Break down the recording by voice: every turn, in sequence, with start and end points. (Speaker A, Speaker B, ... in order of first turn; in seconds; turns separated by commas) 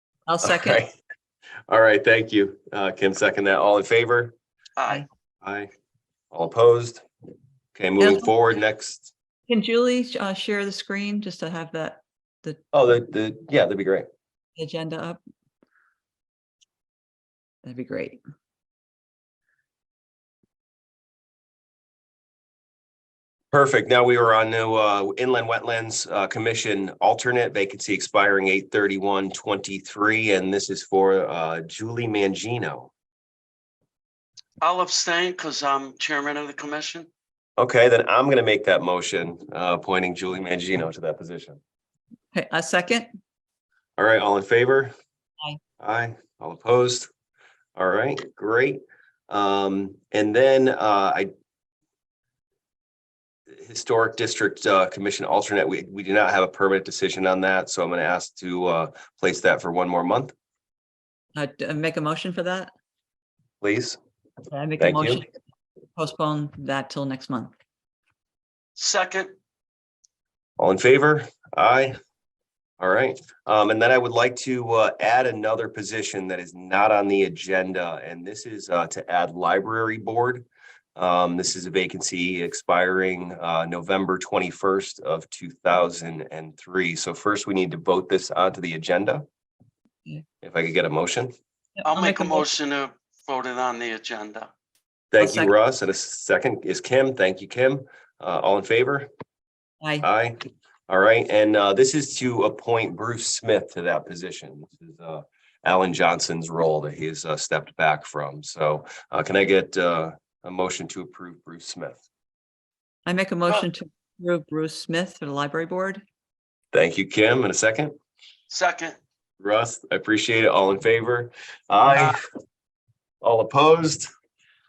Speaker A: 0.3-0.8, Speaker B: 0.4-0.9, Speaker B: 1.7-4.3, Speaker C: 4.8-5.0, Speaker B: 5.4-5.7, Speaker B: 6.3-7.0, Speaker B: 7.7-9.1, Speaker A: 8.0-8.3, Speaker A: 9.5-12.6, Speaker B: 12.7-14.1, Speaker A: 14.6-15.2, Speaker A: 17.6-18.2, Speaker B: 23.5-32.9, Speaker C: 34.6-37.1, Speaker B: 37.6-41.6, Speaker A: 42.3-43.1, Speaker B: 44.0-44.9, Speaker B: 45.8-47.1, Speaker B: 47.8-51.3, Speaker B: 53.5-60.3, Speaker A: 61.3-62.7, Speaker B: 63.6-64.0, Speaker A: 64.5-65.3, Speaker B: 64.8-65.2, Speaker A: 66.0-67.5, Speaker C: 68.8-69.3, Speaker B: 70.6-72.0, Speaker B: 72.8-89.2, Speaker B: 90.4-91.3, Speaker A: 91.8-92.5, Speaker C: 91.8-94.5, Speaker B: 95.1-99.1, Speaker A: 95.2-95.5, Speaker A: 99.8-100.1, Speaker B: 100.0-100.4, Speaker B: 100.9-112.0, Speaker A: 113.0-116.0, Speaker B: 116.7-117.9, Speaker C: 118.5-119.0, Speaker B: 119.4-122.2, Speaker B: 123.2-124.1